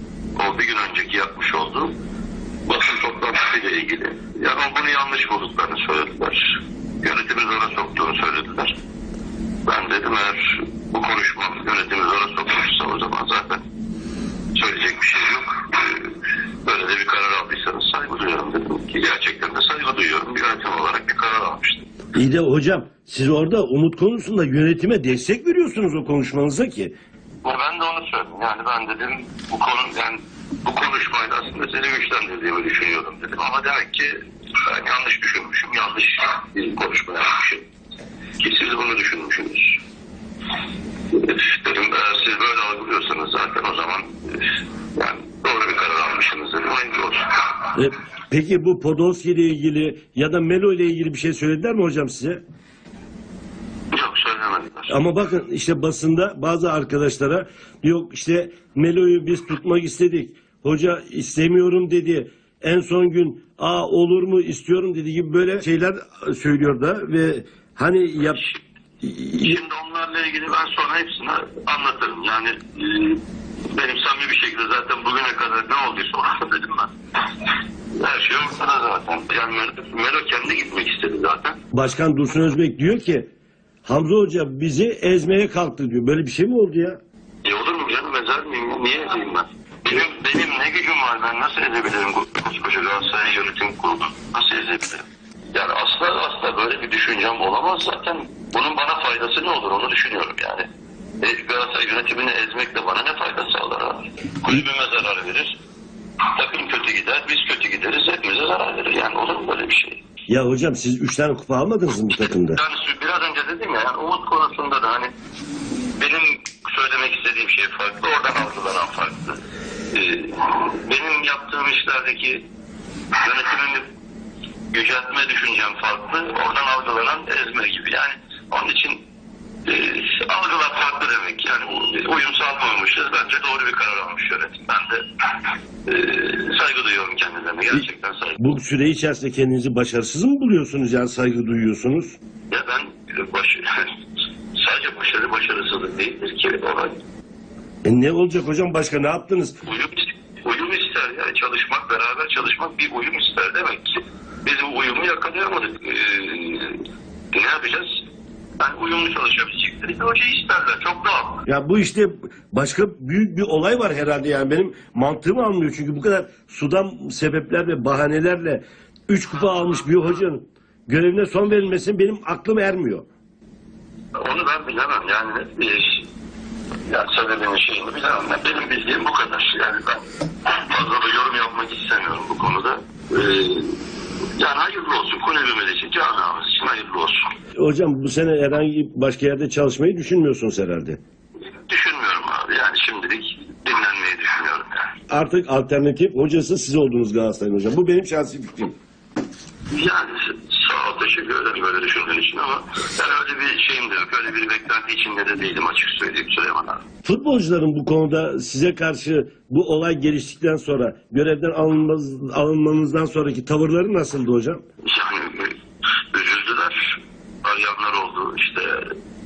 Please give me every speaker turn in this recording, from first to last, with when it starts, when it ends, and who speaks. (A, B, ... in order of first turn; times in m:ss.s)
0:00.4-0:01.9 A
0:02.7-0:08.8 A
0:09.7-0:13.6 A
0:14.6-0:16.1 A
0:16.6-0:21.9 A
0:22.1-0:26.9 B
0:27.4-0:37.6 A
0:38.4-0:39.8 A
0:41.1-0:44.4 A
0:45.0-0:47.6 A
0:47.7-0:52.4 B
0:53.9-0:55.0 A
0:54.9-1:08.4 B
1:08.2-1:08.6 A
1:09.0-1:09.6 B
1:09.4-1:16.9 A
1:18.0-1:21.6 A
1:21.7-1:23.3 B
1:23.8-1:27.0 B
1:27.4-1:40.7 A
1:41.2-1:45.6 A
1:46.3-1:50.0 A
1:50.3-1:52.6 B
1:52.1-1:55.1 A
1:55.8-1:59.4 A
1:59.9-2:02.4 A
2:03.2-2:03.9 A
2:04.7-2:09.0 A
2:09.7-2:15.0 A
2:15.9-2:18.4 A
2:18.4-2:22.2 B
2:22.5-2:23.9 A
2:24.6-2:27.0 A
2:27.8-2:29.6 B
2:29.6-2:37.9 A
2:38.6-2:41.4 A
2:41.5-2:53.1 B
2:54.2-2:56.0 A
2:56.9-3:03.8 A
3:04.4-3:07.3 A
3:07.6-3:11.0 B
3:11.4-3:14.9 A
3:15.1-3:18.7 B
3:19.7-3:26.8 A
3:27.0-3:34.6 B
3:34.8-3:35.6 A
3:36.1-3:38.9 A